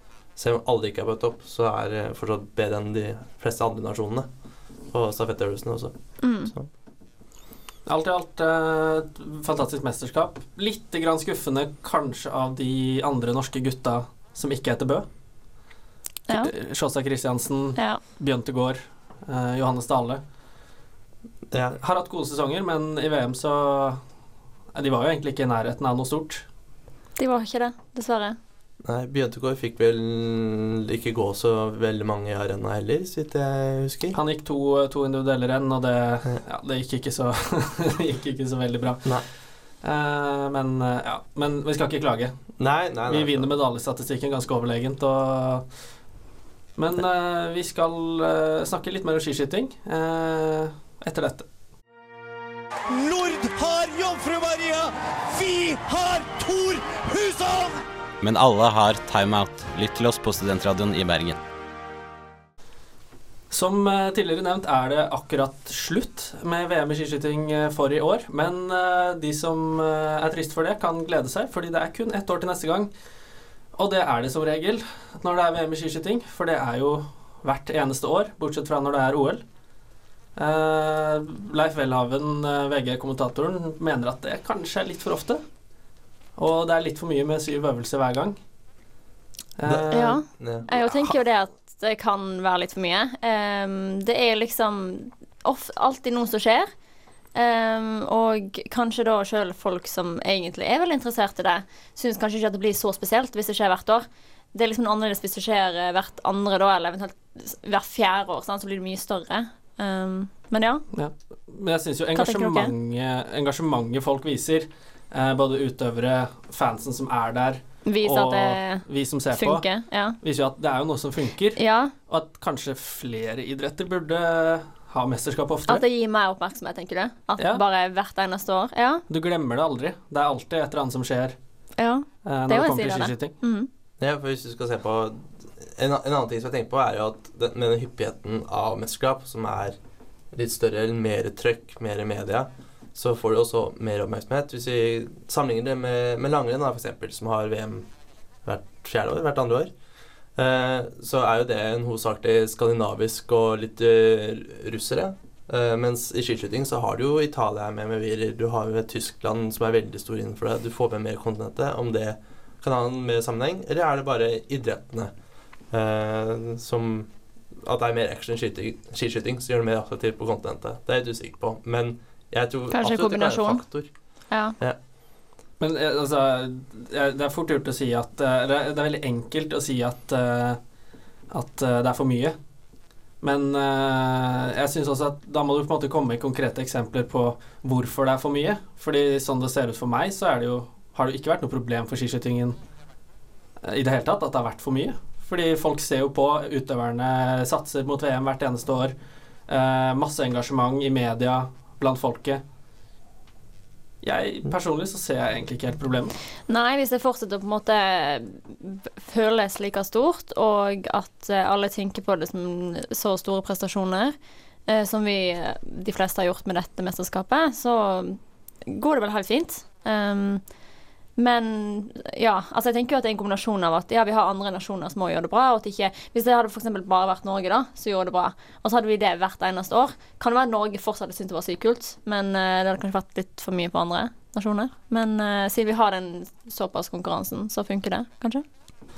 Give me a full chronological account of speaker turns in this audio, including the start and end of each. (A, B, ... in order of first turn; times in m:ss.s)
0:00.4-0:04.3 A
0:04.9-0:06.7 A
0:06.2-0:06.5 B
0:07.8-0:15.1 C
0:16.3-0:20.2 C
0:21.5-0:21.8 A
0:21.8-0:24.0 C
0:24.7-0:26.4 C
0:27.2-0:28.4 B
0:28.8-0:34.2 A
0:34.1-0:39.1 C
0:39.8-0:42.4 C
0:42.6-0:43.5 A
0:43.1-0:45.6 C
0:46.8-0:51.5 C
0:52.9-0:57.8 D
0:58.2-1:01.4 E
1:03.5-1:12.9 C
1:13.8-1:19.4 C
1:20.4-1:25.4 C
1:26.4-1:28.4 C
1:29.6-1:30.2 C
1:29.6-1:31.0 A
1:29.9-1:36.7 B
1:37.3-1:50.8 B
1:50.9-1:59.6 C
1:52.2-1:52.7 B
1:57.8-2:00.2 B
2:00.2-2:05.8 C
2:01.6-2:01.9 B
2:05.7-2:09.0 B
2:07.4-2:07.6 C
2:09.1-2:11.4 C
2:11.8-2:13.7 B
2:12.2-2:13.3 C
2:14.0-2:19.8 A
2:20.3-2:27.9 A
2:28.4-2:29.7 A
2:30.4-2:45.1 A
2:45.7-2:53.9 A
2:52.7-2:53.6 B
2:54.3-2:54.6 B
2:55.6-3:00.6 C
3:01.3-3:02.4 C
3:03.2-3:12.6 C
3:13.6-3:18.9 C
3:19.5-3:22.4 C
3:24.0-3:26.1 C
3:26.5-3:34.1 B
3:34.7-3:40.4 B
3:41.2-3:58.4 B